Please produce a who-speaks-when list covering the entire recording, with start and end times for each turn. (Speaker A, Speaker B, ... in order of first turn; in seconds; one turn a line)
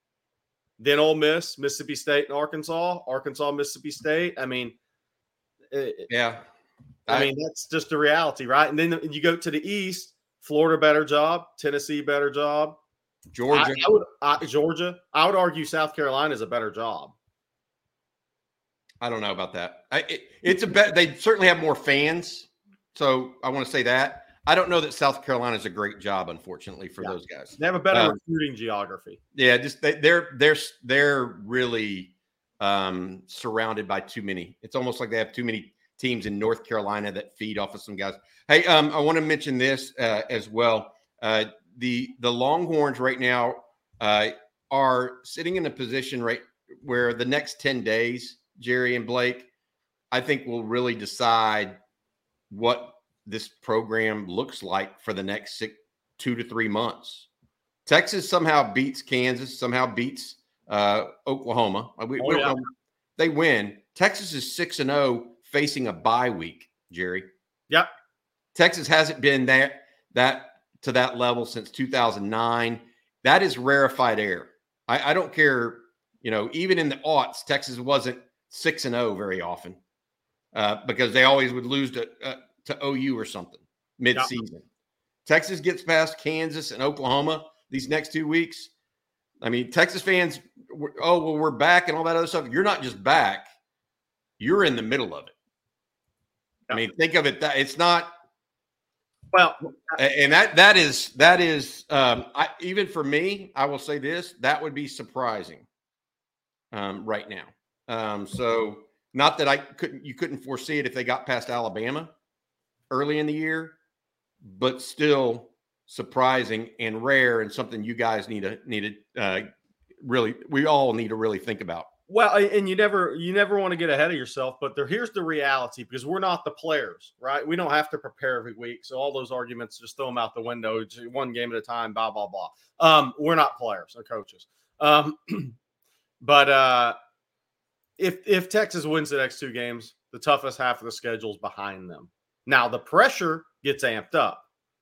Speaker A: 0.8-4.7
Speaker A: 5.7-6.1
Speaker B: 6.1-6.4
Speaker A: 7.1-12.8
Speaker B: 13.3-13.9
Speaker A: 13.5-17.1
Speaker B: 19.0-28.2
Speaker A: 27.0-29.2
Speaker B: 29.3-49.5
Speaker B: 50.1-51.8
Speaker B: 52.5-57.3
Speaker B: 57.9-67.3
Speaker A: 62.2-62.5
Speaker B: 68.5-79.8
Speaker B: 80.5-84.6
Speaker B: 85.2-88.7
Speaker B: 89.4-93.5
Speaker B: 94.4-95.3
Speaker B: 96.7-98.1
Speaker A: 99.3-100.0
Speaker B: 100.0-105.6
Speaker B: 106.7-112.1
Speaker B: 112.9-113.8
Speaker B: 114.4-119.5
Speaker B: 120.0-121.9
Speaker A: 122.1-135.5
Speaker A: 136.2-136.9
Speaker A: 138.0-144.4